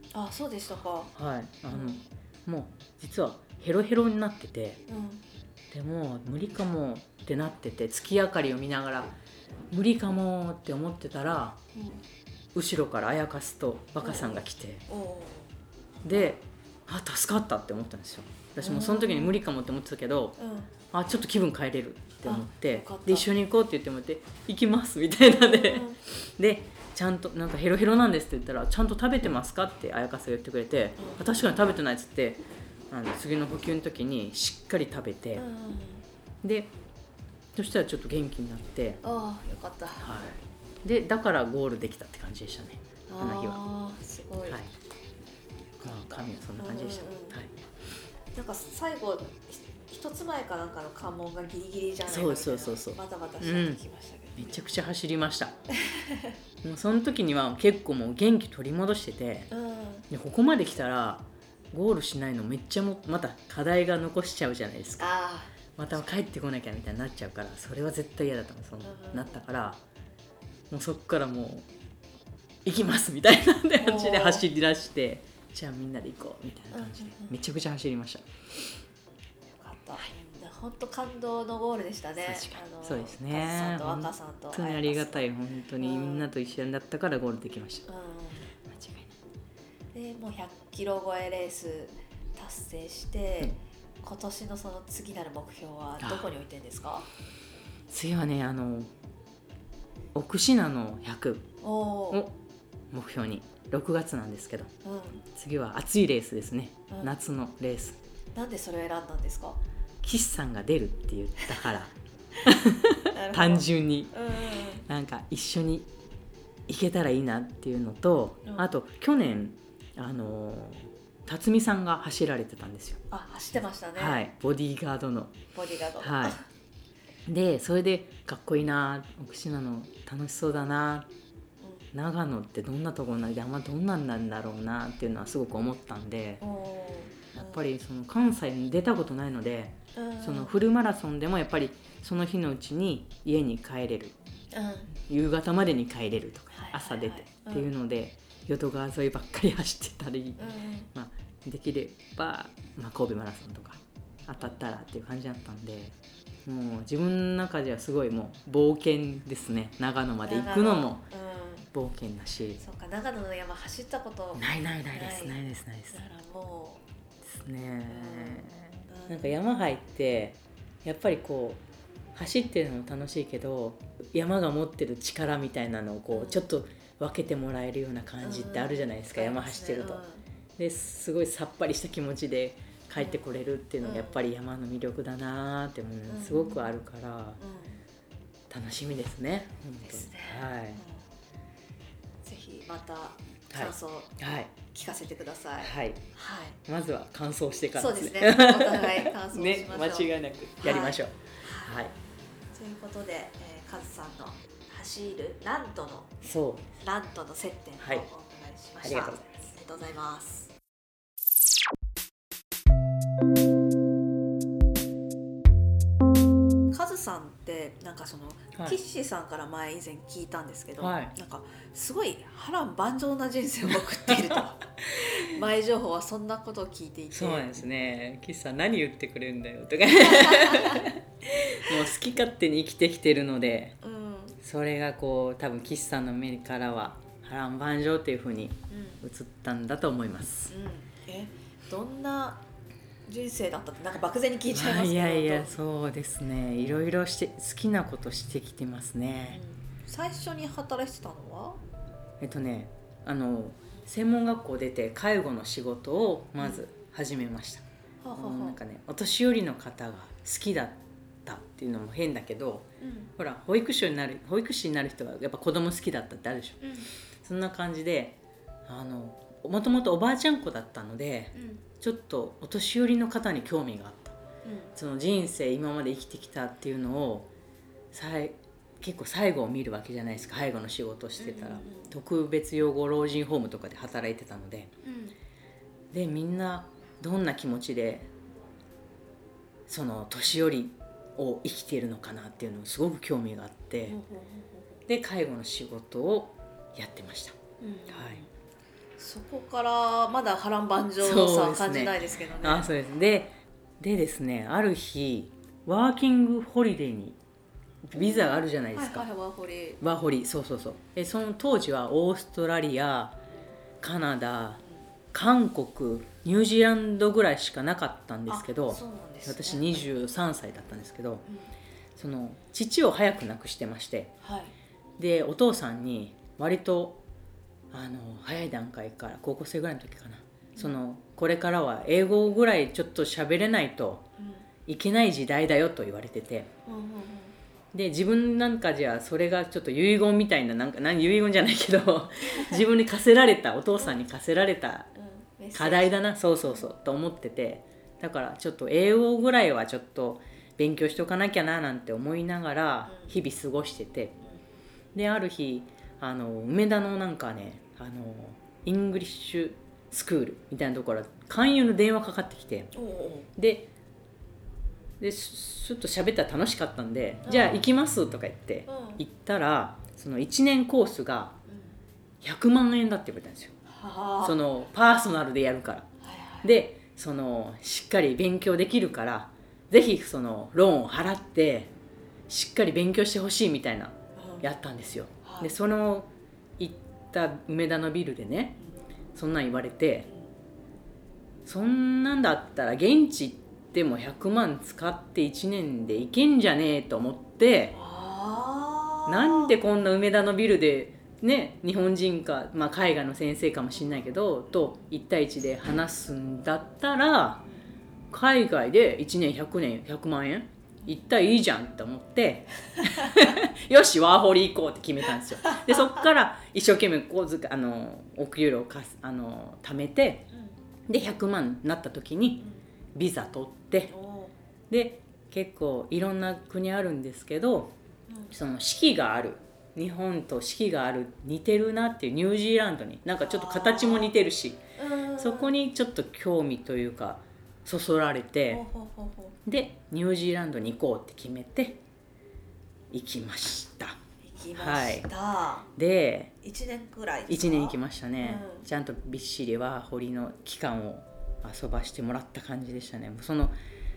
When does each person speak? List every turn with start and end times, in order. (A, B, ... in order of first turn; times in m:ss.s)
0:00.1-0:01.1 A
0:01.2-0:04.8 B
0:01.7-0:02.0 A
0:04.9-0:05.2 A
0:05.7-0:09.2 B
0:09.7-0:11.6 B
0:11.8-0:12.0 A
0:12.5-0:14.8 B
0:14.0-0:15.5 A
0:16.0-0:20.4 B
0:18.6-0:19.4 A
0:20.4-0:20.7 A
0:20.9-0:35.4 B
0:22.2-0:23.3 A
0:25.2-0:26.0 A
0:31.0-0:31.3 A
0:35.4-0:36.0 A
0:36.4-0:36.7 B
0:37.6-0:39.0 B
0:39.0-0:40.2 A
0:40.0-0:43.6 B
0:43.1-0:44.6 A
0:45.8-0:47.4 A
0:45.8-0:47.5 B
0:48.3-0:54.6 A
0:52.1-0:53.8 B
0:54.4-0:55.5 B
0:55.8-0:56.3 A
0:56.6-0:59.5 B
0:59.5-1:00.1 A
1:00.1-1:05.1 B
1:05.0-1:06.2 A
1:05.8-1:09.8 B
1:08.8-1:09.4 A
1:10.7-1:11.7 B
1:12.6-1:18.3 B
1:13.8-1:14.4 A
1:16.7-1:17.4 A
1:19.6-1:26.3 A
1:22.2-1:27.9 B
1:27.9-1:28.5 A
1:28.7-1:29.1 B
1:29.9-1:37.1 A
1:36.0-1:36.3 B
1:37.9-1:38.9 B
1:40.1-1:41.5 B
1:41.6-1:42.2 A
1:42.9-1:44.7 B
1:44.8-1:45.2 A
1:45.4-1:48.0 B
1:48.4-1:49.6 A
1:50.0-1:54.1 B
1:53.1-1:54.8 A
1:54.8-1:55.9 B
1:56.7-2:03.0 B
2:03.1-2:04.2 A
2:04.0-2:05.4 B
2:05.5-2:06.4 A
2:06.0-2:06.4 B
2:07.3-2:11.1 B
2:11.6-2:11.9 A
2:11.9-2:16.4 B
2:16.4-2:17.6 A
2:17.3-2:24.2 B
2:20.0-2:20.6 A
2:24.5-2:24.9 A
2:25.0-2:41.0 B
2:26.5-2:27.7 A
2:30.4-2:30.9 A
2:40.2-2:41.7 A
2:41.7-2:42.6 B
2:42.6-2:45.4 A
2:44.4-2:46.0 B
2:45.9-2:46.8 A
2:47.3-2:51.6 B
2:47.9-2:49.4 A
2:52.2-3:00.0 B
2:56.1-2:56.4 A
2:58.2-3:00.2 A
3:00.6-3:07.4 B
3:03.8-3:04.2 A
3:06.1-3:06.7 A
3:07.4-3:07.8 A
3:08.5-3:10.8 B
3:09.8-3:11.0 A
3:12.2-3:14.2 A
3:13.5-3:14.5 B
3:14.7-3:16.6 A
3:15.6-3:16.0 B
3:16.7-3:21.9 B
3:17.8-3:21.8 A
3:22.5-3:26.2 A
3:26.2-3:26.8 B
3:26.8-3:30.5 A
3:27.8-3:28.0 B
3:28.8-3:29.5 B
3:36.7-3:47.6 A
3:40.8-3:41.1 B
3:44.1-3:44.4 B
3:45.0-3:45.2 B
3:47.1-3:53.8 B
3:49.9-3:50.9 A
3:53.8-3:54.4 A
3:54.4-4:00.5 B
3:58.7-3:59.0 A
4:00.5-4:02.4 A
4:03.1-4:05.5 A
4:04.5-4:09.4 B
4:09.3-4:11.6 A
4:12.2-4:17.6 B
4:16.4-4:16.6 A
4:18.0-4:18.6 A
4:18.2-4:26.7 B
4:22.8-4:23.1 A
4:26.6-4:26.9 A
4:27.2-4:34.2 B
4:31.4-4:31.6 A
4:34.4-4:34.7 A
4:34.8-4:37.3 B
4:37.9-4:44.7 B
4:41.2-4:41.9 A
4:44.8-4:45.2 A
4:45.9-4:48.1 B
4:49.7-4:54.0 B
4:53.9-4:54.8 A
4:54.9-4:57.4 B
4:57.6-4:58.3 A
4:57.9-4:58.2 B
4:59.0-5:02.7 A
5:01.0-5:07.2 B
5:07.8-5:09.1 B
5:08.0-5:09.8 A
5:09.8-5:13.2 B
5:13.8-5:14.6 B
5:15.1-5:21.2 B
5:18.3-5:19.8 A
5:21.3-5:21.5 A
5:22.0-5:24.2 B
5:24.2-5:24.5 A
5:25.0-5:27.0 B
5:27.7-5:34.1 B
5:34.2-5:34.5 A
5:34.7-5:36.5 B
5:36.7-5:37.4 A
5:37.7-5:44.9 B
5:42.3-5:42.6 A
5:45.0-5:46.7 A
5:45.5-5:54.2 B
5:52.9-5:53.1 A
5:54.9-6:02.7 B
6:02.7-6:03.3 A
6:03.4-6:03.7 B
6:05.0-6:11.4 B
6:07.2-6:07.6 A
6:08.7-6:09.0 A
6:11.5-6:11.8 A
6:12.2-6:13.5 B
6:13.7-6:14.4 A
6:14.2-6:15.9 B
6:16.0-6:16.5 A
6:16.4-6:21.7 B
6:22.3-6:28.6 B
6:24.2-6:24.5 A
6:25.2-6:25.6 A
6:29.2-6:30.1 B
6:31.5-6:37.8 B
6:37.7-6:39.6 A
6:39.1-6:47.5 B
6:48.1-7:00.3 B
6:52.8-6:53.3 A
6:55.4-6:56.0 A
7:00.9-7:02.4 B
7:03.0-7:03.9 B
7:03.9-7:04.4 A
7:04.7-7:07.8 B
7:08.1-7:08.3 A
7:08.3-7:14.6 B
7:13.3-7:14.1 A
7:14.8-7:15.5 A
7:15.2-7:18.6 B
7:18.5-7:19.4 A
7:19.5-7:21.8 B
7:22.9-7:24.0 B
7:24.2-7:25.7 A
7:24.6-7:25.1 B
7:25.8-7:26.3 B
7:26.4-7:28.7 A
7:27.3-7:33.6 B